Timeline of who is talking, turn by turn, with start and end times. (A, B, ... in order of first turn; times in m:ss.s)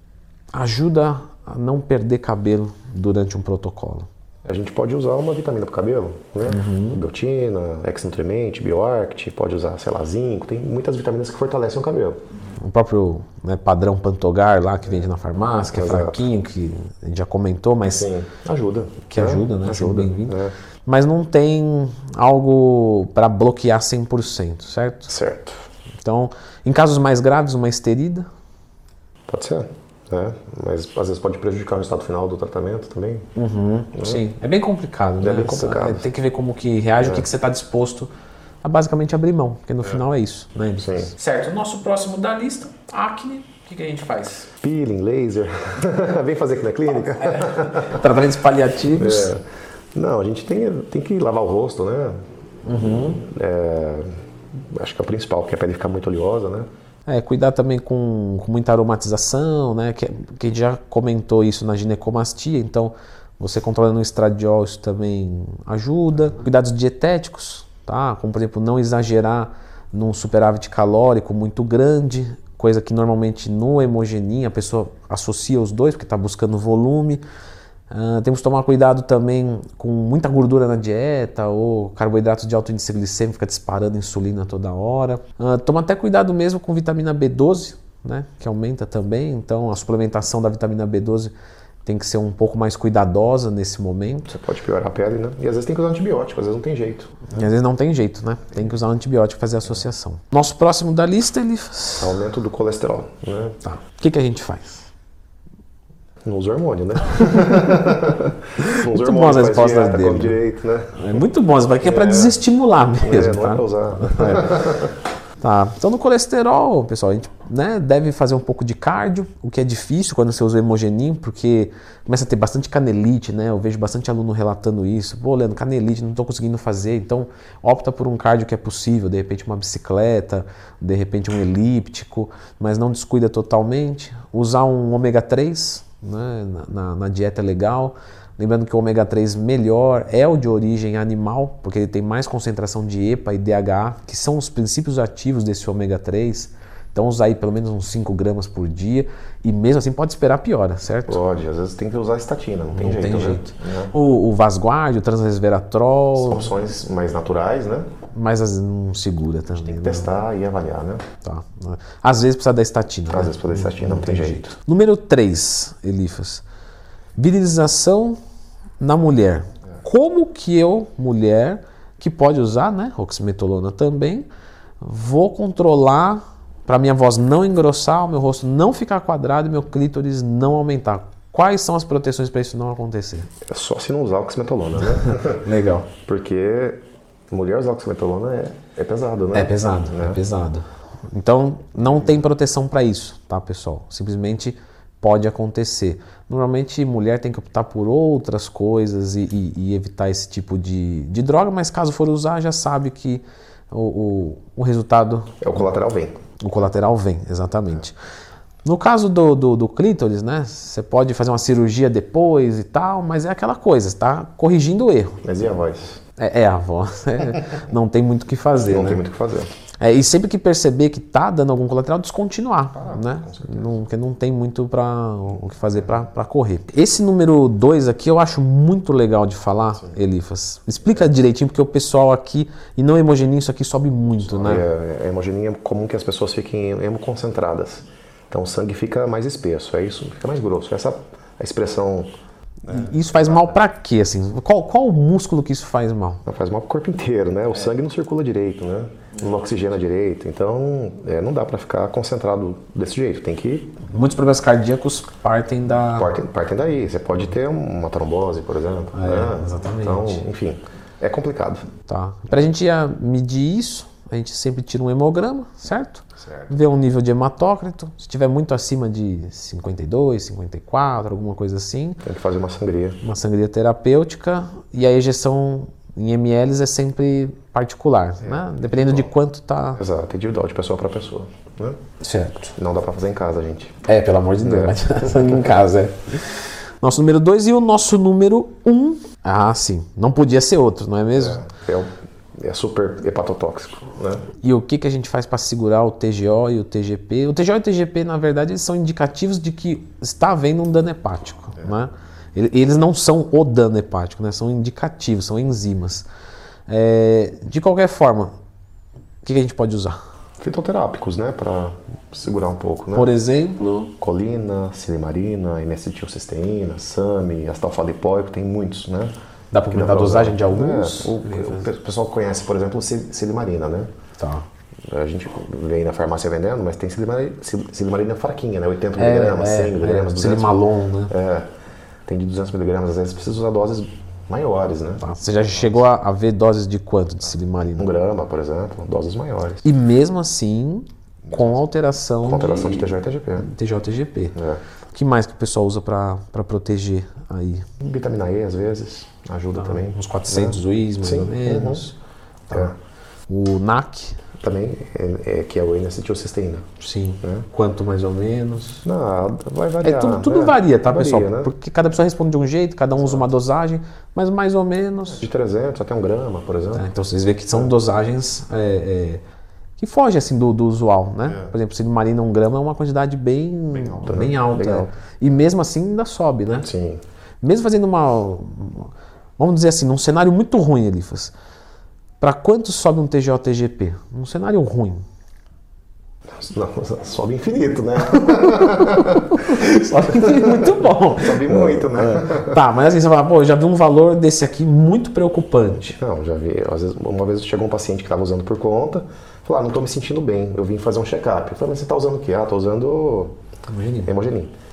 0:00.5-0:04.1 A
0:04.4-0:12.2 B
0:06.4-0:07.0 A
0:12.6-0:18.1 A
0:15.7-0:16.3 B
0:17.9-0:20.5 B
0:19.1-0:25.1 A
0:25.1-0:25.6 B
0:26.0-0:28.2 A
0:29.3-0:33.3 B
0:33.4-0:38.1 A
0:33.9-0:34.2 B
0:35.2-0:36.1 B
0:37.0-0:37.3 B
0:38.6-0:44.5 A
0:40.8-0:41.1 B
0:44.6-0:48.0 B
0:47.2-0:49.3 A
0:48.9-0:52.2 B
0:52.6-0:53.2 A
0:53.0-0:56.7 B
0:57.0-1:17.2 A
1:17.9-1:31.3 A
1:31.8-1:34.3 A
1:34.3-1:37.4 B
1:37.3-1:42.2 A
1:42.0-1:43.6 B
1:43.6-1:44.9 A
1:46.2-1:51.2 B
1:48.6-1:50.4 A
1:50.9-1:54.6 A
1:51.8-1:52.4 B
1:53.0-1:54.9 B
1:55.4-2:31.2 A
2:31.1-2:33.9 B
2:32.7-2:36.7 A
2:36.2-2:37.9 B
2:38.1-2:40.1 A
2:39.5-2:41.0 B
2:41.2-2:46.4 A
2:43.1-2:44.5 B
2:47.2-2:48.2 A
2:48.8-2:54.3 A
2:54.8-3:03.3 A
3:03.5-3:05.4 B
3:05.0-3:05.9 A
3:06.0-3:06.8 B
3:07.3-3:10.2 B
3:09.3-3:25.6 A
3:25.4-3:26.2 B
3:26.4-3:28.0 A
3:28.6-3:35.2 A
3:35.2-3:36.0 B
3:36.2-3:39.0 A
3:38.6-3:39.5 B
3:39.8-3:54.6 A
3:42.7-3:43.8 B
3:54.3-4:02.1 B
4:02.6-4:03.6 B
4:02.6-4:06.2 A
4:06.2-4:13.8 B
4:13.9-4:16.1 A
4:15.9-4:21.7 B
4:18.9-4:20.2 A
4:21.9-4:32.0 A
4:26.2-4:26.5 B
4:32.0-4:33.0 B
4:33.0-4:39.8 A
4:38.2-4:39.1 B
4:39.8-4:41.8 B
4:42.0-4:42.5 A
4:42.6-4:43.8 B
4:43.8-4:51.4 A
4:44.4-4:45.6 B
4:51.1-4:54.2 B
4:54.4-5:06.0 A
5:06.7-5:08.3 A
5:09.2-5:10.0 A
5:10.4-5:13.1 B
5:12.9-5:13.9 A
5:14.0-5:19.1 B
5:19.5-5:21.7 A
5:19.7-5:23.9 B
5:24.2-5:24.4 A
5:24.9-5:31.5 B
5:28.9-5:31.1 A
5:32.0-5:35.8 B
5:35.0-5:37.9 A
5:37.7-5:39.7 B
5:39.6-5:44.4 A
5:41.2-5:41.6 B
5:42.2-5:43.5 B
5:44.3-5:44.6 B
5:44.9-5:47.7 A
5:47.8-5:51.8 B
5:49.5-5:52.0 A
5:52.5-5:52.7 A
5:53.3-5:54.2 A
5:54.4-5:56.6 B
5:56.8-5:58.8 A
5:57.2-5:57.5 B
5:58.8-6:01.5 B
5:59.8-6:05.2 A
6:03.0-6:03.3 B
6:05.1-6:06.9 B
6:06.7-6:09.2 A
6:09.8-6:16.7 A
6:11.3-6:11.5 B
6:13.8-6:14.9 B
6:16.6-6:17.0 B
6:17.4-6:21.3 A
6:22.2-6:25.0 A
6:26.3-6:29.4 B
6:28.1-6:36.0 A
6:30.1-6:32.6 B
6:35.9-6:43.3 B
6:43.7-6:44.1 A
6:44.0-6:44.5 B